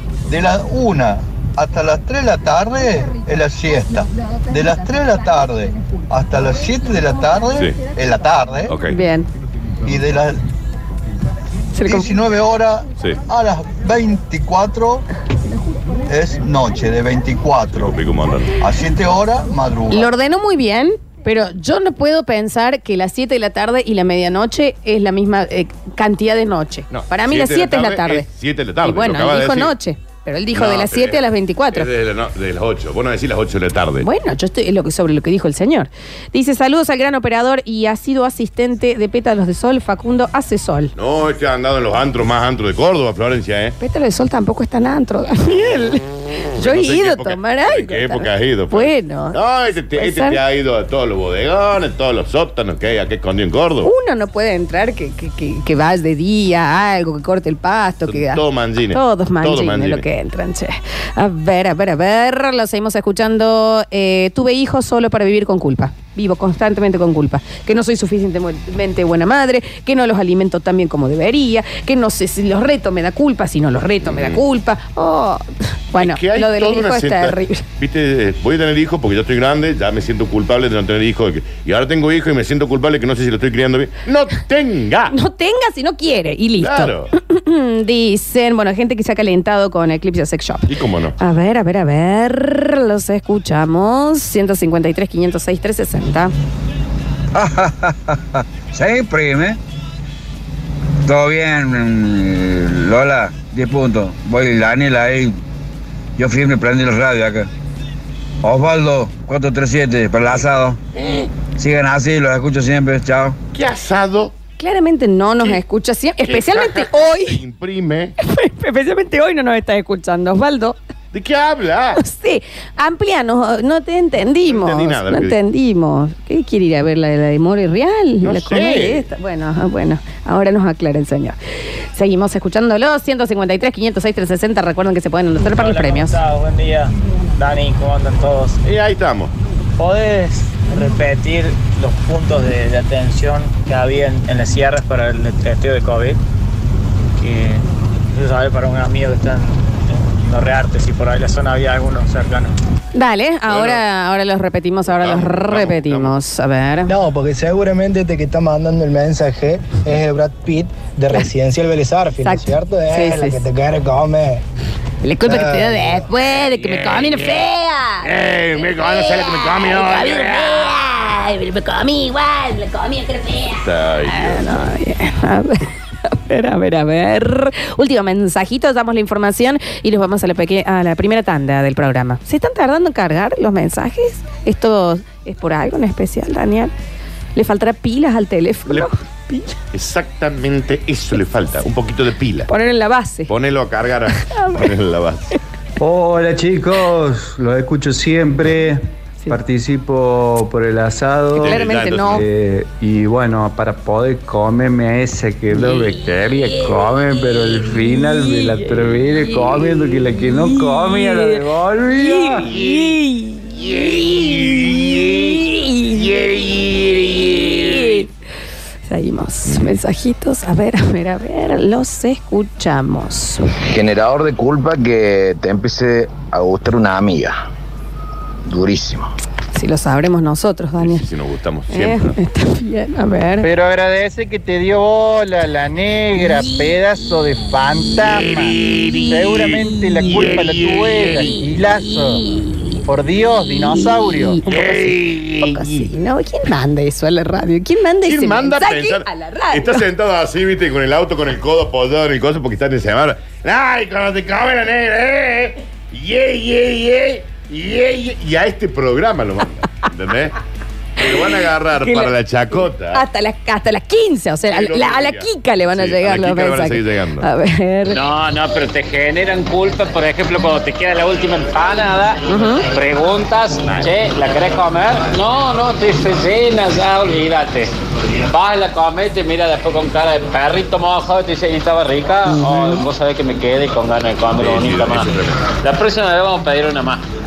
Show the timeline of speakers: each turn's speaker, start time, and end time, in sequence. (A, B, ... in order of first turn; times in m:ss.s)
0:00.3-0:08.7 A
0:08.7-0:09.0 B
0:08.8-0:09.3 C
0:09.8-0:10.4 A
0:11.7-0:12.1 C
0:11.8-0:15.0 A
0:16.1-0:18.0 A
0:17.8-0:18.6 B
0:18.6-0:20.1 A
0:19.9-0:28.2 C
0:26.9-0:29.7 B
0:28.8-0:31.9 C
0:30.5-0:34.1 B
0:34.0-0:40.9 C
0:41.0-0:43.8 B
0:43.8-0:46.0 C
0:46.5-0:53.9 B
0:46.6-0:49.4 C
0:49.9-0:50.4 C
0:53.8-1:17.6 C
0:58.0-1:00.0 B
1:14.0-1:14.4 B
1:15.9-1:25.1 B
1:25.1-1:36.3 C
1:26.6-1:27.1 B
1:30.7-1:31.2 B
1:37.3-1:39.6 D
1:41.0-1:45.4 D
1:46.2-1:47.5 D
1:48.4-1:50.8 D
1:50.9-1:51.3 B
1:51.4-1:53.4 D
1:53.5-1:54.3 B
1:54.6-1:57.4 C
1:56.2-1:58.2 B
1:58.2-2:00.8 C
2:01.1-2:02.0 B
2:02.0-2:11.4 C
2:04.4-2:05.4 B
2:08.2-2:09.0 B
2:11.9-2:16.2 C
2:15.4-2:18.6 E
2:18.6-2:19.3 B
2:19.8-2:26.2 E
2:27.2-2:32.5 E
2:32.9-2:36.9 C
2:33.5-2:33.8 B
2:34.9-2:36.1 B
2:36.9-2:44.4 F
2:42.2-2:43.4 C
2:45.0-3:06.7 C
2:45.2-2:46.0 F
2:46.5-2:47.4 B
2:48.0-2:50.8 B
2:53.5-2:54.7 B
3:07.3-3:09.6 C
3:09.7-3:12.5 B
3:12.5-3:13.3 C
3:13.3-3:15.3 B
3:14.1-3:14.7 C
3:15.8-3:32.6 G
3:21.3-3:22.2 C
3:21.4-3:22.2 B
3:30.8-3:38.1 C
3:38.9-3:43.5 C
3:39.5-3:39.8 B
3:43.6-3:47.4 H
3:48.4-3:49.1 H
3:49.5-3:51.0 C
3:50.8-3:52.2 B
3:51.7-3:53.5 C
3:53.4-3:58.6 I
3:58.1-3:59.4 B
3:59.1-4:02.2 I
4:00.1-4:01.2 B
4:02.8-4:04.4 I
4:04.0-4:09.8 C
4:04.4-4:05.8 B
4:08.0-4:20.4 B
4:21.0-4:23.0 B
4:21.8-4:28.0 C
4:24.5-4:27.3 B
4:27.9-4:37.7 J
4:32.3-4:32.6 C
4:38.3-4:47.0 J
4:42.2-4:42.8 C
4:44.3-4:45.4 B